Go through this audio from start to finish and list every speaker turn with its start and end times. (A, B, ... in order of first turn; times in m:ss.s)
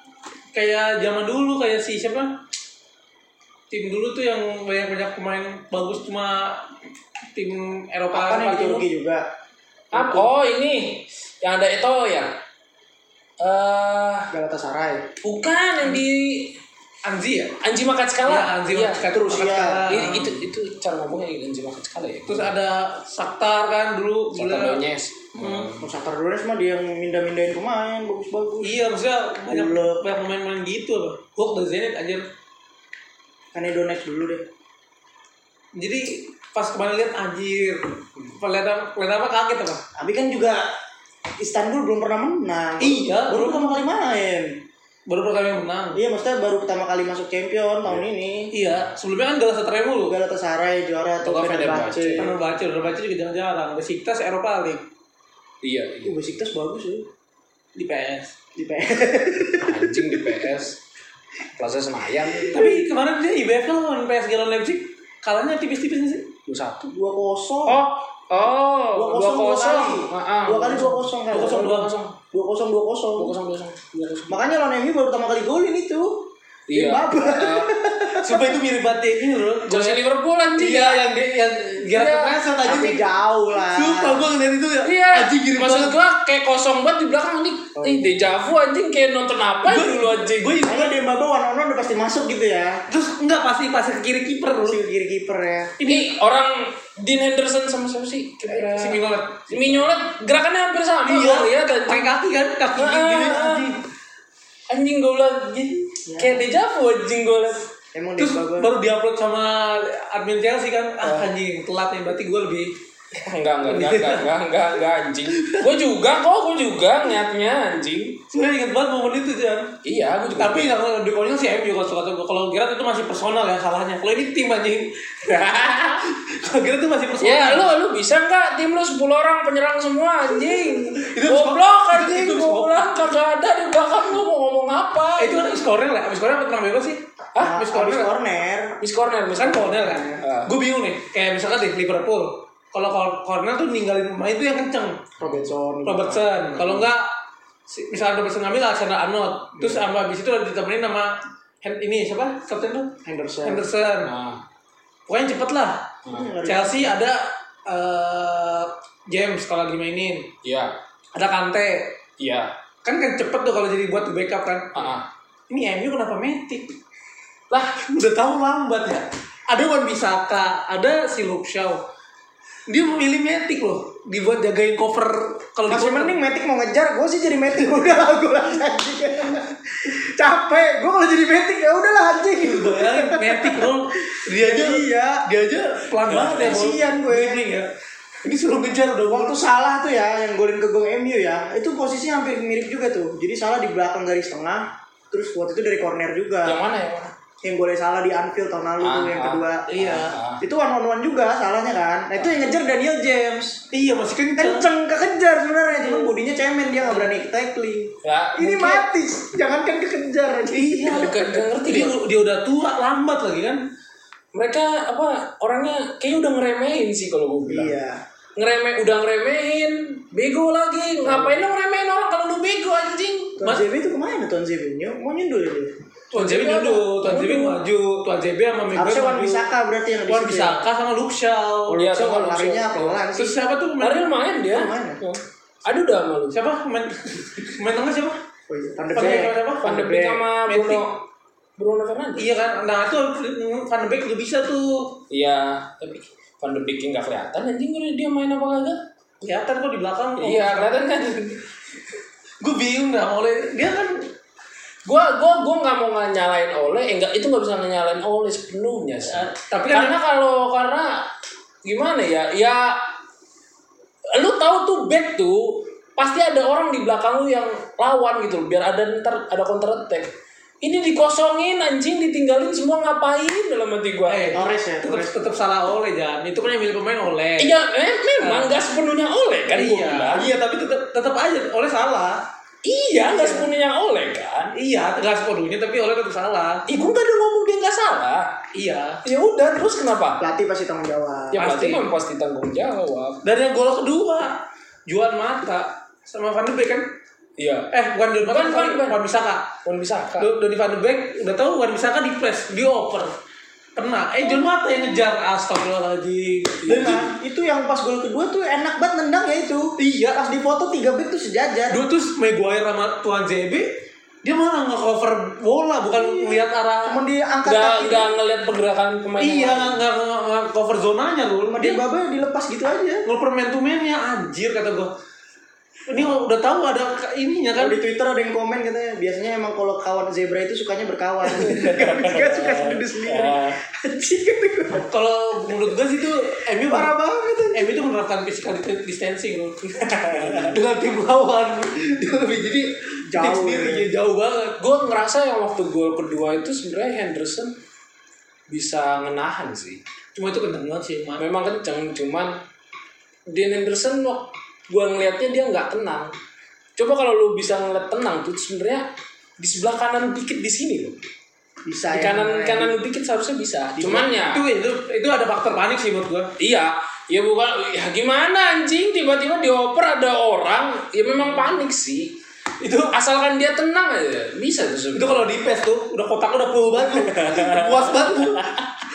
0:00.5-0:02.4 A
0:03.7-0:06.6 A
0:07.3-0:08.9 A
0:08.1-0:09.2 B
0:09.9-0:12.3 C
0:09.9-0:10.3 B
0:13.4-0:14.3 C
0:14.3-0:15.1 B
0:15.2-0:16.6 C
0:17.0-0:17.6 A
0:17.6-0:19.1 C
0:18.2-0:20.4 A
0:19.1-0:19.9 B
0:19.9-0:22.5 C
0:22.3-0:24.8 A
0:24.3-0:25.8 C
0:25.3-0:25.7 A
0:25.7-0:28.8 B
0:28.6-0:32.3 A
0:29.5-0:30.0 B
0:33.5-0:34.4 B
0:35.8-0:39.8 A
0:39.9-0:40.6 B
0:41.4-0:44.6 B
0:42.8-0:43.9 A
0:45.1-0:46.0 A
0:45.9-0:48.5 B
0:48.5-0:50.2 A
0:50.0-0:52.4 B
0:51.2-0:52.3 C
0:52.2-0:54.8 A
0:55.6-0:56.2 C
0:56.0-0:57.0 B
0:57.7-0:58.3 A
0:58.6-1:00.4 B
0:59.6-1:00.8 C
1:01.6-1:02.7 C
1:02.2-1:02.8 B
1:02.5-1:06.3 A
1:06.5-1:06.9 C
1:06.9-1:07.8 B
1:07.7-1:11.0 C
1:08.9-1:11.8 B
1:11.3-1:11.9 A
1:11.7-1:12.2 C
1:12.3-1:13.3 B
1:13.2-1:14.4 C
1:14.3-1:18.6 B
1:16.7-1:17.7 C
1:18.2-1:20.0 A
1:19.6-1:21.0 C
1:20.6-1:26.0 A
1:21.9-1:22.4 C
1:22.6-1:24.3 B
1:24.8-1:30.6 C
1:27.8-1:28.3 B
1:29.6-1:30.9 A
1:30.6-1:32.8 B
1:32.9-1:34.8 A
1:34.6-1:35.7 B
1:35.8-1:36.1 A
1:35.8-1:42.1 C
1:38.4-1:39.9 A
1:41.0-1:43.8 A
1:42.7-1:43.8 C
1:44.7-1:47.7 C
1:46.1-1:46.4 B
1:47.9-1:48.7 B
1:48.2-1:52.7 A
1:53.1-1:58.2 C
1:53.7-1:54.3 A
1:55.3-1:55.7 A
1:58.3-1:59.8 A
1:59.8-2:00.8 C
2:00.4-2:05.3 A
2:05.2-2:06.0 C
2:06.0-2:07.7 A
2:07.2-2:15.4 C
2:10.4-2:12.9 A
2:15.2-2:18.1 A
2:17.3-2:17.6 C
2:17.4-2:18.8 B
2:18.8-2:20.5 C
2:19.4-2:25.1 A
2:25.2-2:25.5 C
2:25.2-2:26.8 B
2:25.8-2:27.1 A
2:27.7-2:34.1 A
2:29.6-2:29.9 B
2:33.0-2:33.6 B
2:34.0-2:34.4 C
2:35.1-2:35.9 A
2:36.0-2:36.3 C
2:36.1-2:37.0 B
2:36.4-2:40.3 A
2:40.4-2:40.7 C
2:41.1-2:41.9 A
2:42.2-2:42.5 C
2:42.8-2:44.9 A
2:44.7-2:45.0 C
2:45.5-2:46.7 A
2:47.5-2:47.8 C
2:47.7-2:51.8 A
2:52.7-2:56.2 A
2:55.6-3:05.3 B
3:02.4-3:07.7 A
3:06.1-3:07.4 B
3:06.1-3:06.6 C
3:08.2-3:09.5 A
3:09.0-3:16.6 B
3:16.4-3:17.1 C
3:17.4-3:19.6 B
3:18.8-3:20.4 C
3:19.7-3:20.2 A
3:20.4-3:23.6 B
3:22.2-3:22.4 C
3:23.7-3:24.7 A
3:24.4-3:31.4 B
3:25.8-3:26.2 A
3:26.9-3:27.1 A
3:28.0-3:28.8 C
3:30.5-3:33.6 A
3:30.8-3:32.0 C
3:34.3-3:37.7 C
3:37.4-3:38.0 B
3:38.4-3:43.4 C
3:41.0-3:41.3 B
3:43.4-3:45.7 B
3:46.1-3:49.5 A
3:46.1-3:47.6 C
3:48.7-3:50.6 B
3:50.1-3:51.8 A
3:51.7-3:53.4 B
3:51.7-3:53.0 C
3:53.1-3:54.1 A
3:53.8-3:56.4 C
3:54.4-3:55.0 B
3:56.3-3:58.2 A
3:58.5-4:00.3 B
3:58.9-3:59.7 A
3:59.6-4:01.0 C
4:00.5-4:00.8 A
4:01.6-4:02.3 C
4:02.2-4:05.0 A
4:05.1-4:08.8 C
4:09.2-4:10.8 A
4:10.2-4:11.4 C
4:12.4-4:14.0 A
4:14.8-4:20.9 C
4:19.0-4:20.0 A
4:21.6-4:22.8 C
4:24.1-4:34.4 C
4:34.1-4:37.6 A
4:34.3-4:35.1 B
4:37.4-4:40.3 C
4:38.2-4:38.6 A
4:39.5-4:42.2 A
4:42.6-4:44.6 C
4:43.0-4:43.5 A
4:44.5-4:46.7 A
4:46.6-4:48.3 C
4:48.5-4:49.0 A
4:49.0-4:50.2 C
4:50.2-4:51.4 B
4:51.3-4:53.2 C
4:51.4-4:51.8 A
4:53.2-4:56.8 A
4:57.4-4:59.0 C
4:57.7-4:59.4 A
4:59.6-5:00.3 C
5:00.2-5:03.1 A
5:03.8-5:07.1 A
5:04.2-5:04.8 B
5:06.6-5:11.8 B
5:09.8-5:10.2 A
5:11.7-5:13.7 A
5:14.2-5:17.0 A
5:15.9-5:18.1 B
5:17.4-5:19.8 C
5:19.2-5:21.8 A
5:21.5-5:23.0 B
5:23.0-5:24.9 A
5:25.9-5:27.8 A
5:27.6-5:34.9 B
5:31.3-5:33.6 C
5:34.7-5:36.9 A
5:36.6-5:37.8 B
5:37.5-5:44.6 A
5:39.7-5:40.5 C
5:43.1-5:43.9 B
5:44.6-5:47.5 C
5:48.5-5:49.8 C
5:50.1-5:51.2 A
5:51.2-5:52.3 C
5:53.3-5:56.1 C
5:56.8-5:58.8 C
5:59.4-6:01.0 C
6:01.6-6:02.8 B
6:01.9-6:04.4 C
6:03.8-6:04.3 B
6:04.1-6:06.3 A
6:06.4-6:12.1 C
6:11.2-6:11.6 A
6:12.6-6:13.0 A
6:12.8-6:15.3 C
6:14.9-6:18.6 A
6:16.9-6:18.6 C